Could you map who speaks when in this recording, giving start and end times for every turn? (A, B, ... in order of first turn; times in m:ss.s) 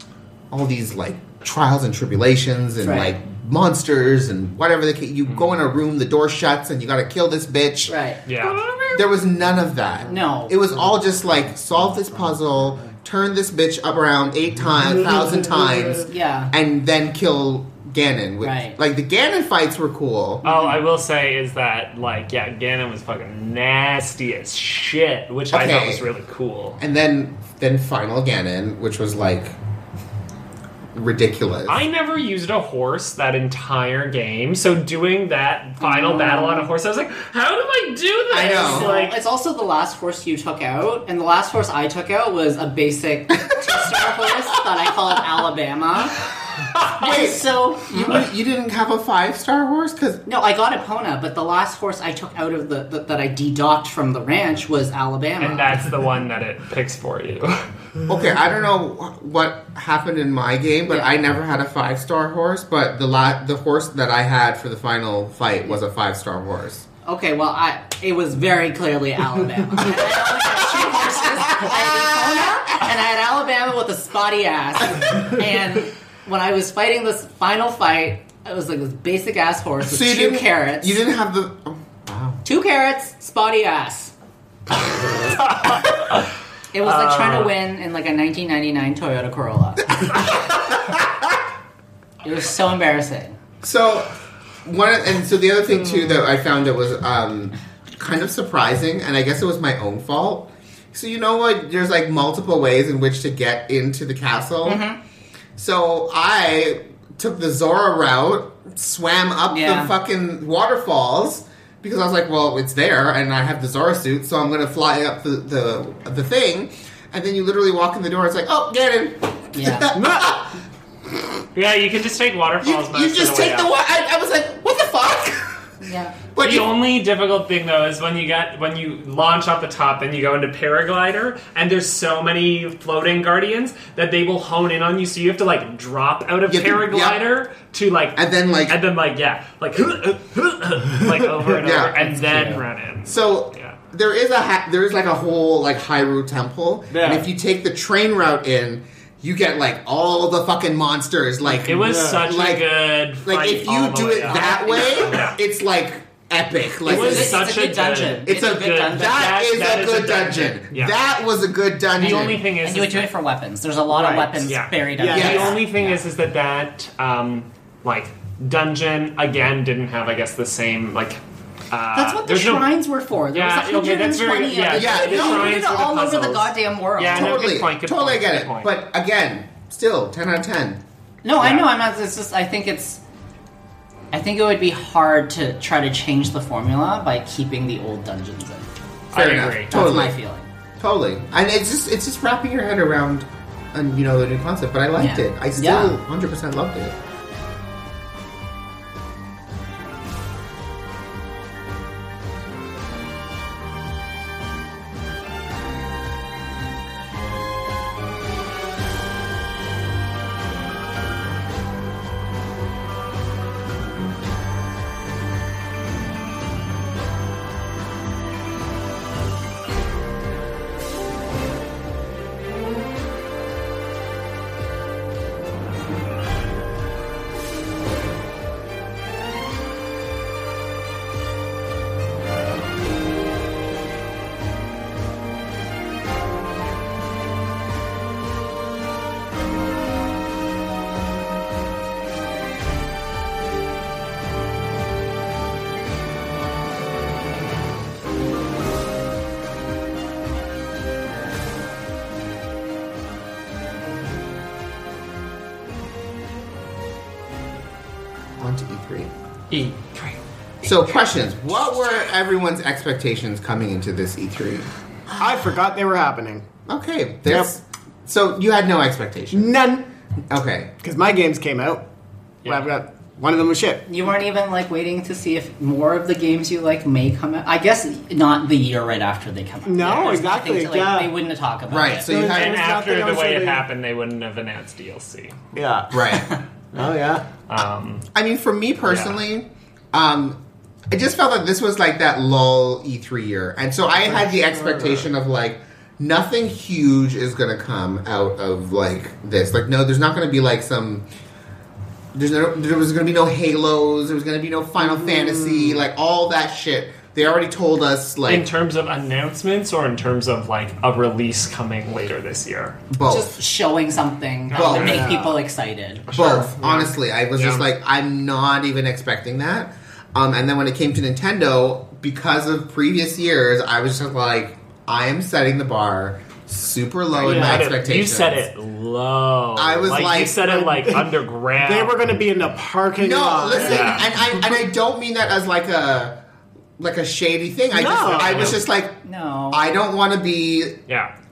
0:00.5-0:07.9 A
0:02.8-0:03.1 B
0:05.3-0:05.6 C
0:07.9-0:08.2 B
0:08.2-0:08.6 C
0:08.4-0:08.9 D
0:08.9-0:20.4 A
0:10.1-0:10.6 B
0:14.9-0:16.0 D
0:16.0-0:16.5 B
0:18.4-0:18.8 B
0:20.4-0:26.8 C
0:25.5-0:26.0 A
0:26.8-0:29.5 A
0:30.9-0:31.8 A
0:31.7-0:39.2 C
0:35.8-0:36.7 B
0:38.3-0:46.2 B
0:38.4-0:38.9 A
0:43.5-0:44.3 A
0:47.0-0:48.3 B
0:47.0-0:50.2 A
0:50.2-0:55.8 B
0:55.4-0:57.7 C
0:58.1-1:06.8 A
1:07.0-1:21.0 B
1:10.8-1:12.5 A
1:19.8-1:22.4 A
1:22.4-1:24.1 B
1:25.5-1:26.2 C
1:26.7-1:30.2 B
1:26.8-1:27.5 C
1:30.2-1:31.1 A
1:32.2-1:33.4 B
1:33.6-1:34.1 A
1:34.6-1:44.8 A
1:44.6-1:45.0 B
1:45.6-2:00.6 A
1:49.5-1:49.9 B
1:59.5-1:59.9 B
1:59.9-2:00.4 D
2:01.5-2:03.7 C
2:02.6-2:06.7 A
2:05.8-2:06.1 B
2:06.4-2:23.8 C
2:16.5-2:17.2 A
2:18.2-2:18.8 A
2:21.0-2:21.6 D
2:21.6-2:32.7 A
2:26.9-2:27.3 D
2:31.5-2:32.2 D
2:31.6-2:35.4 C
2:33.2-2:37.5 A
2:34.3-2:35.3 B
2:36.8-2:41.0 C
2:36.8-2:39.3 B
2:38.2-2:42.4 A
2:41.9-2:43.1 C
2:42.0-2:46.0 B
2:43.9-2:45.6 D
2:44.4-2:52.7 C
2:45.1-2:45.6 A
2:51.9-2:57.4 B
2:53.3-2:58.7 C
2:54.7-2:55.6 A
2:57.1-3:00.8 A
3:01.2-3:03.0 B
3:04.1-3:08.7 B
3:09.1-3:10.0 C
3:09.1-3:10.2 A
3:09.7-3:10.4 B
3:10.8-3:16.9 A
3:15.0-3:16.0 B
4:18.4-4:19.1 A
4:19.5-4:20.2 C
4:20.6-4:24.7 A
4:25.2-4:26.4 D
4:26.7-4:29.5 A
4:29.3-4:29.9 D
4:30.3-4:30.7 A
4:30.8-4:31.8 D
4:32.4-4:33.8 D
4:33.9-4:42.1 B
4:39.6-4:41.1 D
4:39.8-4:40.2 C
4:41.7-4:42.6 A
4:42.0-4:43.6 D
4:42.3-4:45.4 C
4:45.5-4:46.1 D
4:45.9-4:46.3 A
4:46.1-4:46.4 B
4:46.7-4:47.2 D
4:47.5-4:48.0 C
4:48.1-4:50.4 A
4:48.8-4:49.2 C
4:50.9-5:01.0 A
4:54.0-4:55.1 D
5:02.1-5:08.5 A
5:04.8-5:05.8 D
5:08.3-5:12.8 C
5:12.9-5:13.4 A
5:13.0-5:16.1 B
5:14.5-5:15.0 C
5:14.5-5:15.1 A
5:14.6-5:15.4 D
5:16.1-5:17.6 C
5:16.1-5:28.5 A
5:16.2-5:16.6 D
5:27.1-5:32.0 C
5:27.2-5:27.7 D
5:29.6-5:30.4 A
5:30.4-5:34.0 D
5:33.0-5:36.2 A
5:33.5-5:34.0 B
5:33.5-5:34.1 C
5:36.8-5:39.0 A
5:37.7-5:38.6 D
5:38.0-5:38.6 C
5:39.0-5:39.6 B
5:39.5-5:40.8 A